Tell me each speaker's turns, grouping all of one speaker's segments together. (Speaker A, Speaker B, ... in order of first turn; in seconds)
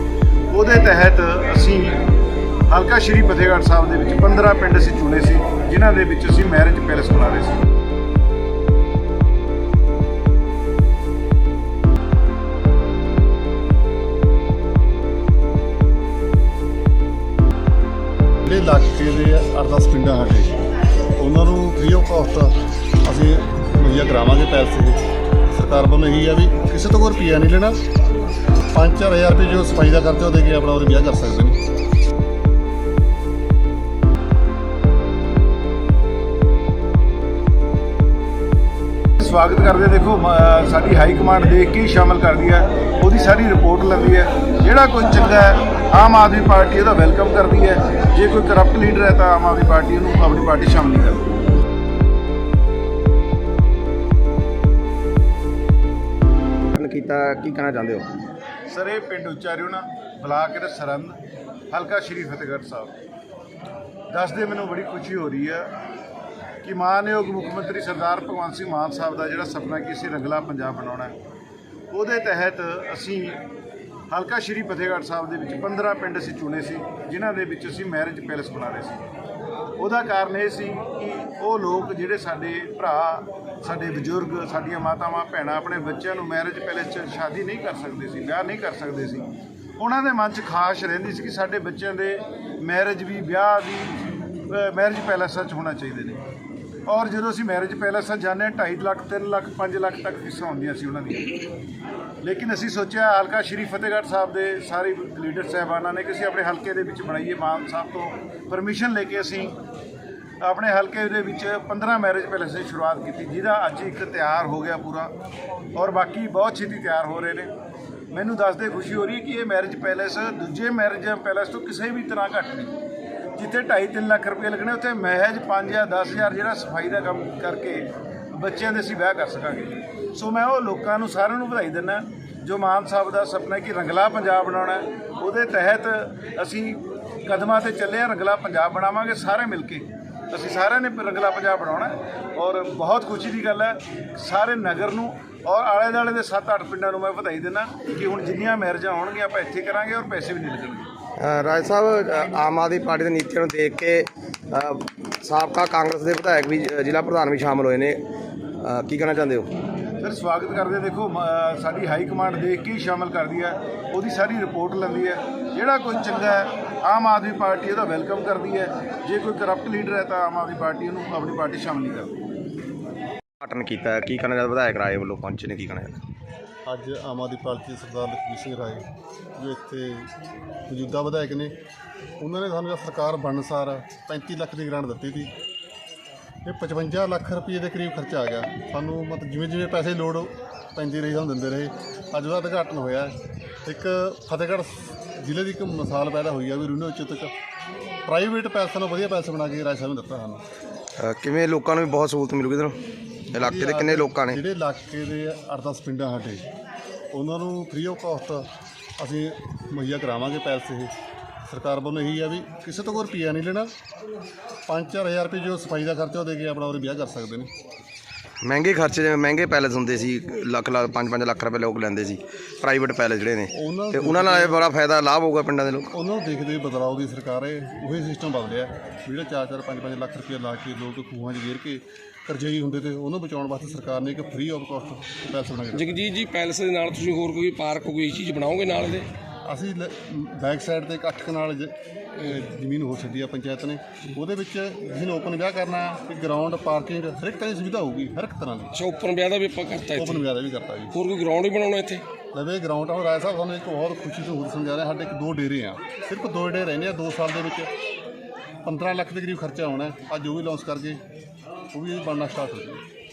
Speaker A: 0.5-2.0, 2.7-7.6, 39.2-51.3, 58.7-61.1, 61.7-62.9, 64.1-65.7, 66.6-71.1, 71.9-73.4, 74.1-79.0, 79.8-89.2, 89.8-93.9, 94.5-96.2, 96.9-101.5, 102.2-109.6, 110.4-115.1, 115.8-117.5, 118.1-122.7, 123.3-150.9, 160.0-172.1
Speaker B: 18.4-20.5, 21.2-27.8, 28.7-31.6, 176.7-178.8, 179.4-180.1, 180.7-181.5, 182.2-185.3, 186.4-193.1, 193.6-197.3, 198.1-200.4, 203.3-206.4, 207.1-208.5, 209.0-210.9, 211.5-213.7, 214.7-217.5, 223.5-224.6, 225.9-235.9, 239.4-248.7, 249.9-250.9, 252.3-257.7, 258.6-261.0, 261.7-262.8
Speaker C: 56.7-58.0, 151.2-158.0, 158.6-159.5, 173.4-176.0, 201.0-202.8, 203.3-204.4, 218.4-225.9
Speaker D: 235.7-239.1, 248.7-250.2, 250.9-252.0